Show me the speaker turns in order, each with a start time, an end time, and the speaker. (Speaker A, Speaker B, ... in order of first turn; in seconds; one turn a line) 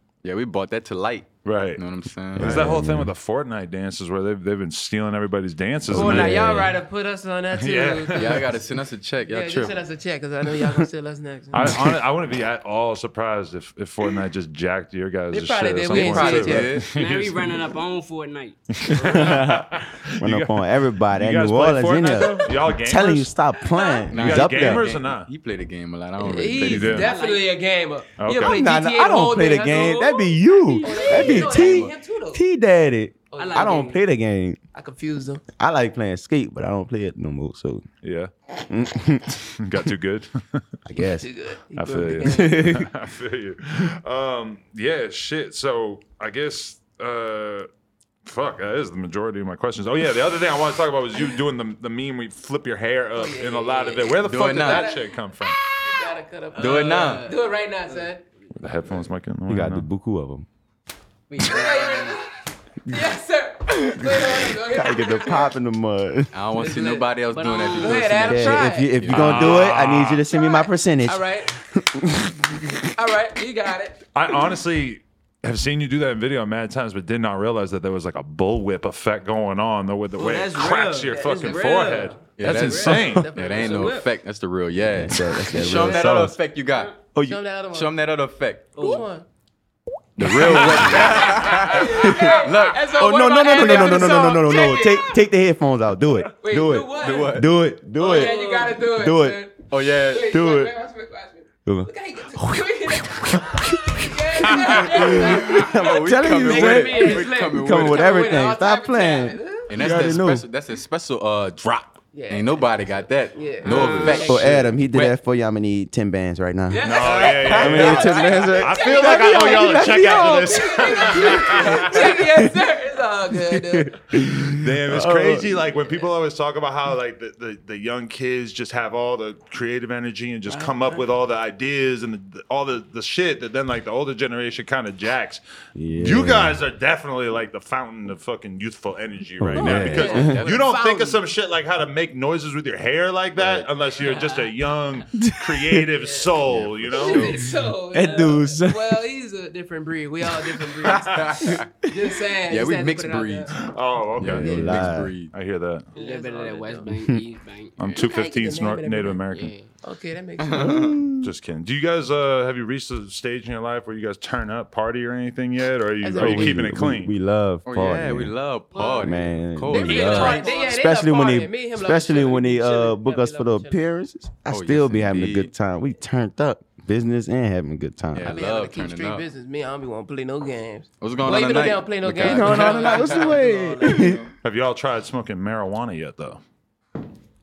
Speaker A: 0.2-2.7
Speaker B: 1.4-1.8
Speaker C: 2.4-3.1
Speaker B: 2.4-6.5
Speaker C: 5.9-6.8
Speaker D: 5.9-8.5
Speaker B: 7.5-8.5
Speaker A: 8.2-9.8
Speaker D: 9.3-11.7
Speaker C: 10.5-10.9
Speaker B: 11.5-17.6
Speaker C: 11.6-11.9
Speaker D: 15.3-16.8
Speaker A: 15.9-16.9
Speaker E: 16.9-18.6
Speaker B: 18.8-23.3
Speaker C: 18.9-24.9
Speaker D: 23.7-24.1
Speaker A: 24.1-27.1
Speaker B: 24.1-25.3
Speaker D: 26.2-32.4
Speaker B: 26.6-27.1
Speaker E: 26.9-27.5
Speaker B: 28.2-28.6
Speaker C: 28.4-34.6
Speaker E: 30.7-31.6
Speaker A: 31.1-31.9
Speaker D: 33.3-33.9
Speaker E: 33.4-34.0
Speaker D: 34.7-35.4
Speaker C: 35.5-37.8
Speaker B: 38.0-38.3
Speaker C: 38.6-39.4
Speaker B: 39.4-40.6
Speaker C: 40.9-41.3
Speaker D: 41.2-42.6
Speaker B: 41.8-47.7
Speaker C: 42.2-42.9
Speaker B: 48.2-55.6
Speaker D: 53.1-55.1
Speaker A: 54.2-54.9
Speaker D: 55.8-58.2
Speaker E: 56.5-57.4
Speaker A: 56.5-57.3
Speaker B: 58.5-59.9
Speaker C: 59.5-60.5
Speaker E: 61.3-62.2
Speaker D: 61.4-65.5
Speaker C: 63.9-66.3
Speaker A: 66.3-69.6
Speaker D: 66.6-68.9
Speaker E: 67.3-68.2
Speaker C: 68.2-72.8
Speaker B: 69.1-70.2
Speaker D: 70.3-71.6
Speaker D: 72.9-74.0
Speaker B: 74.1-83.3
Speaker E: 80.2-84.0
Speaker D: 81.2-81.7
Speaker A: 82.4-86.9
Speaker D: 82.9-84.0
Speaker C: 84.8-86.3
Speaker B: 85.9-86.3
Speaker C: 87.1-87.4
Speaker D: 87.2-87.9
Speaker A: 87.7-89.0
Speaker E: 88.8-89.0
Speaker D: 88.8-89.2
Speaker C: 90.2-91.3
Speaker A: 90.2-92.9
Speaker B: 90.5-91.2
Speaker D: 90.8-95.2
Speaker C: 91.9-99.4
Speaker A: 93.6-94.1
Speaker D: 96.4-97.4
Speaker A: 97.0-97.5
Speaker D: 98.0-109.7
Speaker E: 98.0-98.8
Speaker A: 99.7-100.4
Speaker C: 100.3-100.7
Speaker C: 101.7-110.4
Speaker A: 104.8-108.3
Speaker A: 109.7-115.1
Speaker D: 112.1-112.7
Speaker D: 113.3-114.5
Speaker B: 113.7-114.2
Speaker C: 113.7-122.6
Speaker D: 116.7-124.0
Speaker B: 116.8-122.0
Speaker A: 117.2-118.2
Speaker C: 123.3-125.5
Speaker B: 124.5-147.4
Speaker D: 130.5-131.0
Speaker C: 135.7-136.6
Speaker C: 139.4-140.4
Speaker D: 139.6-141.2
Speaker A: 143.4-143.7
Speaker E: 144.0-144.5
Speaker C: 145.1-145.9
Speaker D: 145.9-153.6
Speaker C: 147.1-149.1
Speaker A: 150.8-151.7
Speaker A: 152.5-153.5
Speaker B: 153.5-155.9
Speaker C: 154.2-155.1
Speaker A: 154.2-155.3
Speaker D: 155.9-156.9
Speaker E: 155.9-157.8
Speaker C: 156.9-157.2
Speaker B: 157.8-159.5
Speaker D: 157.9-159.2
Speaker E: 159.3-159.7
Speaker D: 159.8-161.0
Speaker A: 160.4-161.0
Speaker C: 160.5-161.3
Speaker B: 161.2-167.1
Speaker D: 166.0-166.6
Speaker C: 166.2-178.4
Speaker A: 167.7-170.5
Speaker D: 168.7-169.2
Speaker D: 169.7-173.8
Speaker E: 169.8-170.7
Speaker A: 174.5-175.5
Speaker A: 178.1-179.2
Speaker D: 178.3-184.2
Speaker A: 181.0-184.2
Speaker C: 182.1-184.2
Speaker B: 184.4-186.4